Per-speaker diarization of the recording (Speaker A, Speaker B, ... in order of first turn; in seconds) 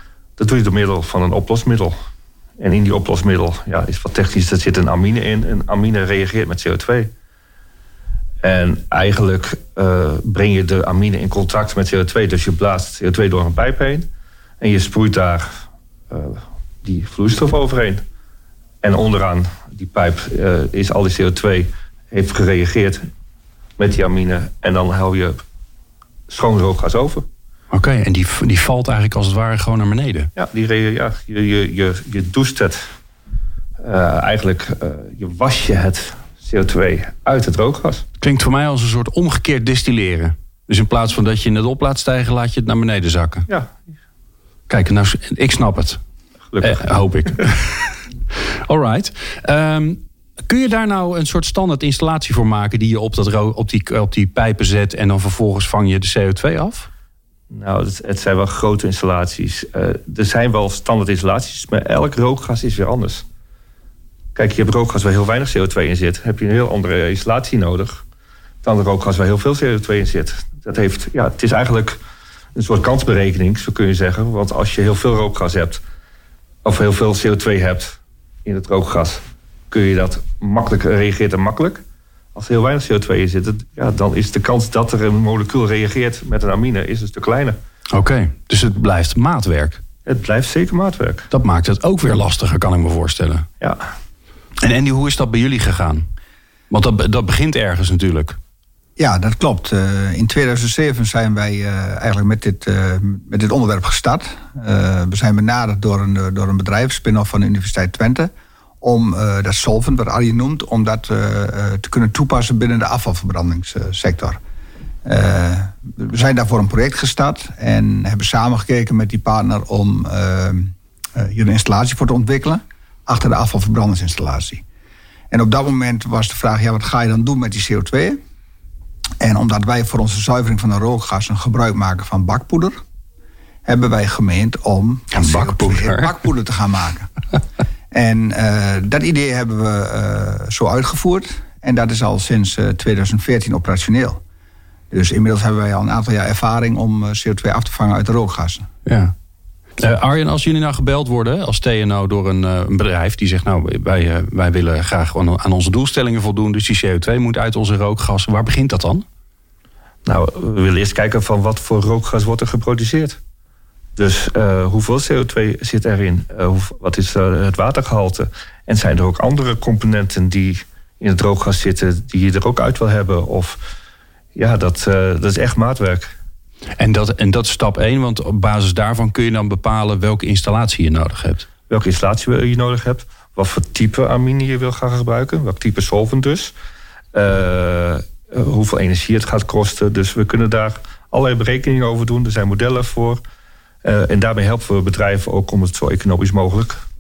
Speaker A: 0.4-2.0, 2.6-7.1, 8.4-14.1, 14.6-15.5, 16.1-18.0, 18.8-23.1, 23.8-25.4, 26.3-27.3, 30.4-32.8, 33.8-38.0, 46.5-46.9, 57.5-63.3, 64.3-68.0, 68.6-72.0, 72.6-75.8, 76.7-81.8, 82.3-87.6, 90.1-91.3, 160.1-163.2, 164.0-173.6, 174.3-176.2, 181.7-186.6, 187.1-193.2, 193.8-196.8
Speaker B: 27.7-30.3, 38.2-43.5, 44.7-46.0, 46.6-48.0, 48.7-56.9, 87.9-89.8, 91.3-93.5, 94.6-96.1, 96.7-98.4, 135.1-136.2, 148.9-149.1, 149.8-159.1, 176.8-181.5
Speaker C: 99.0-108.3, 108.8-114.4, 115.0-124.6, 125.3-128.2, 129.2-132.8, 133.7-137.1, 137.9-144.2, 144.9-148.7